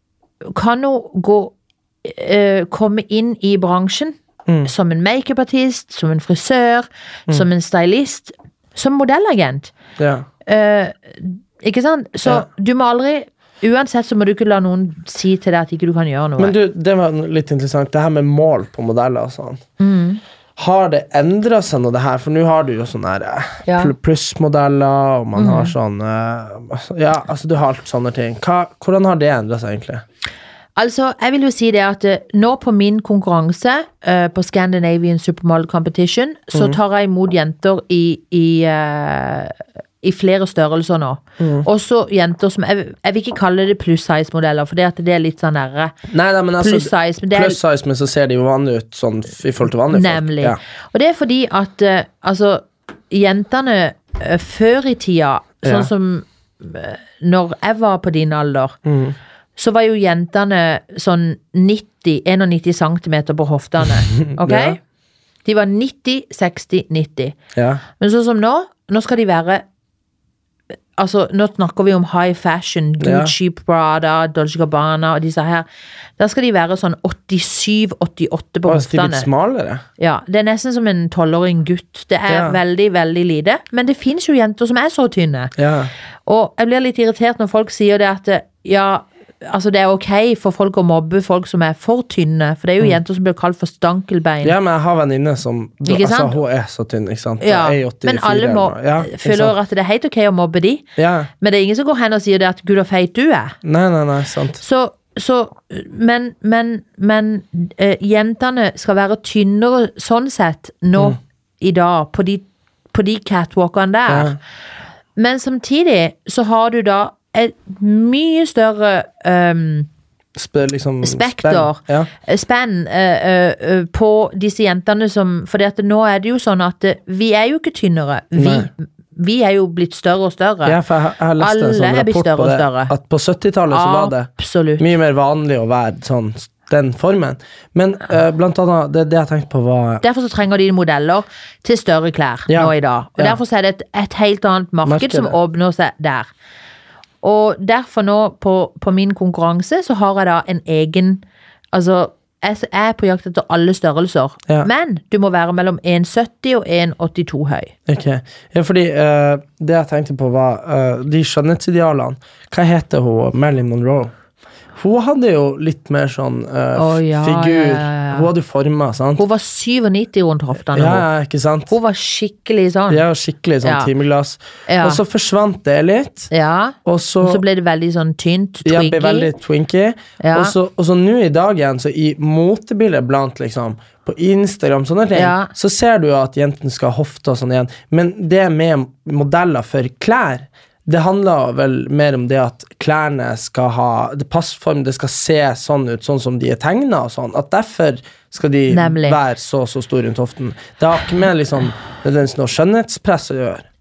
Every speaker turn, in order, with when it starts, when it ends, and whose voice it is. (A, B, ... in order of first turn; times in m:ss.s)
0:00.5-0:01.5 A
0:02.0-0:09.7 A
0:10.0-0:10.2 B
0:10.4-0:16.5 A
0:16.4-0:19.6 B
0:19.8-0:20.2 A
0:20.6-0:30.0 B
0:23.6-0:23.9 A
0:25.4-0:25.7 A
0:30.8-0:45.9 A
0:36.5-0:36.8 B
0:41.4-0:41.7 B
0:46.1-0:50.6 B
0:46.6-0:47.6 A
0:49.9-0:58.8 A
0:55.6-0:55.9 B
0:58.8-0:59.2 B
0:59.6-1:04.8 A
1:04.3-1:04.8 B
1:05.4-1:07.4 A
1:07.5-1:07.8 B
1:08.0-1:09.6 A
1:11.0-1:15.6 A
1:13.0-1:13.3 B
1:16.2-1:19.3 A
1:18.6-1:19.8 B
1:20.0-1:25.5 A
1:22.3-1:22.6 B
1:25.6-1:25.9 B
1:26.2-1:34.5 A
1:34.4-1:39.5 B
1:35.8-1:36.4 A
1:37.4-1:40.8 A
1:41.0-1:41.3 B
1:41.4-1:43.6 A
1:43.6-1:44.6 B
1:44.6-1:54.4 A
1:54.1-1:54.4 B
1:55.2-1:59.9 A
2:00.4-2:02.1 B
2:01.0-2:10.8 A
2:08.4-2:08.7 B
2:10.6-2:20.0 B
2:11.4-2:12.9 A
2:13.7-2:14.8 A
2:20.0-2:26.3 A
2:22.5-2:23.4 B
2:24.8-2:25.4 B
2:27.2-2:31.2 A
2:31.7-2:37.7 A
2:37.9-2:44.1 B
2:44.7-2:49.2 B
2:46.7-2:48.3 A
2:49.2-2:51.1 A
2:50.7-2:51.7 B
2:51.7-2:53.0 A
2:52.9-2:56.3 B
2:53.6-2:53.9 A
2:54.7-2:55.0 A
2:56.3-2:59.3 A
2:56.8-2:57.4 B
2:58.6-3:23.6 B
3:00.2-3:00.5 A
3:05.1-3:05.5 A
3:18.7-3:19.2 A